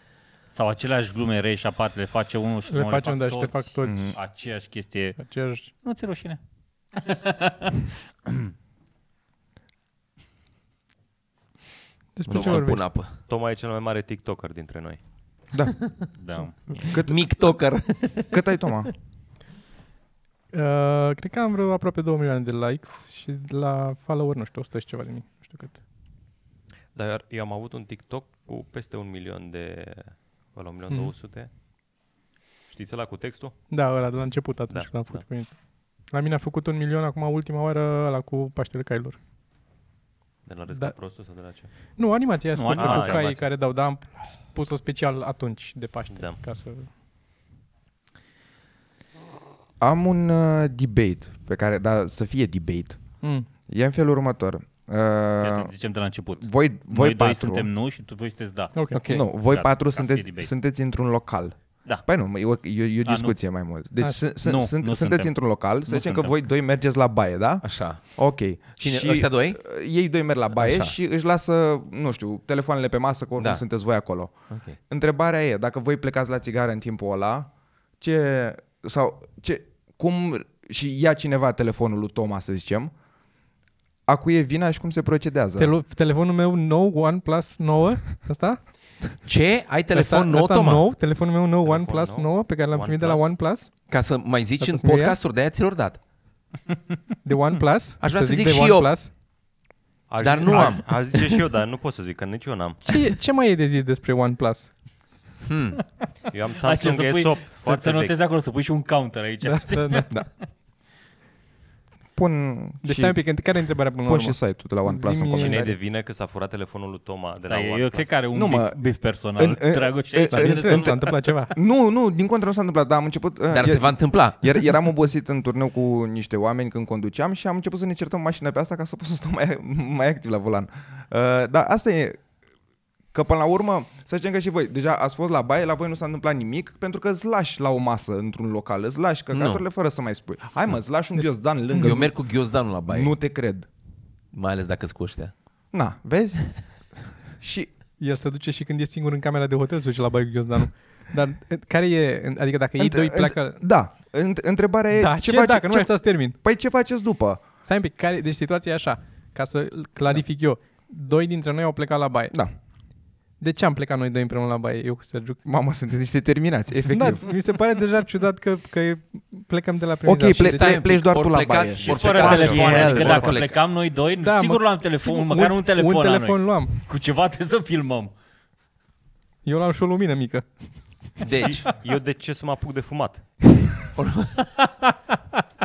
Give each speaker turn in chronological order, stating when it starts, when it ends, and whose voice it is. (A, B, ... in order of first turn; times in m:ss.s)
0:00.5-0:05.2 A
0:02.7-0:04.1 B
0:03.8-0:04.2 C
0:05.2-0:05.7 B
0:05.8-0:06.4 A
0:06.9-0:08.5 A
0:12.2-0:12.9 B
0:12.3-0:13.1 D
0:12.3-0:15.0 E
0:15.5-0:15.8 C
0:16.1-0:16.7 A
0:16.7-0:18.4 D
0:16.9-0:17.3 C
0:18.3-0:18.9 C
0:20.5-0:25.8 B
0:26.9-0:31.5 E
0:32.7-0:33.6 E
0:33.7-0:39.2 B
0:34.7-0:35.2 E
0:40.4-0:41.7 E
0:42.0-0:46.9 B
0:42.5-0:43.4 A
0:42.7-0:43.3 E
0:46.1-0:46.4 E
0:49.8-0:53.0 C
0:53.2-0:53.5 B
0:53.7-0:55.7 C
0:55.4-1:00.5 A
0:56.4-0:57.7 C
0:58.9-0:59.3 D
0:58.9-1:22.9 C
1:03.0-1:03.4 A
1:04.4-1:06.3 A
1:07.6-1:09.6 D
1:10.5-1:10.9 D
1:13.4-1:13.6 D
1:14.5-1:14.8 D
1:24.1-1:25.7 C
1:25.6-1:29.2 B
1:29.2-1:30.9 D
1:29.9-1:33.7 B
1:31.6-1:33.3 E
1:33.9-1:36.0 D
1:34.6-1:35.2 B
1:37.2-1:39.1 B
1:38.0-1:38.9 D
1:40.1-1:42.8 E
1:40.2-1:41.2 D
1:42.8-1:44.7 B
1:45.4-1:45.8 D
1:46.3-1:48.2 E
1:46.6-1:50.4 A
1:49.4-1:50.1 B
1:52.2-1:55.7 C
1:52.8-1:55.7 B
1:55.3-1:58.2 E
1:57.5-2:01.2 A
1:58.3-2:12.2 C
2:00.3-2:01.6 B
2:03.5-2:04.5 D
2:13.1-2:22.3 C
2:19.3-2:19.6 D
2:21.7-2:23.1 D
2:22.8-2:23.7 C
2:24.3-2:25.3 D
2:25.7-2:26.8 C
2:27.4-2:27.7 C
2:28.0-2:33.6 B
2:32.8-2:37.4 C
2:34.9-2:36.4 B
2:37.6-2:42.4 B
2:43.4-2:45.4 B
2:45.4-2:47.2 C
2:46.9-2:50.8 B
2:50.0-2:53.2 C
2:50.4-2:53.6 D
2:51.8-2:53.4 E
2:51.9-2:58.1 A
2:54.2-2:56.7 B
2:59.4-3:01.1 B
3:01.2-3:01.7 D
3:01.5-3:03.3 E
3:04.0-3:04.4 D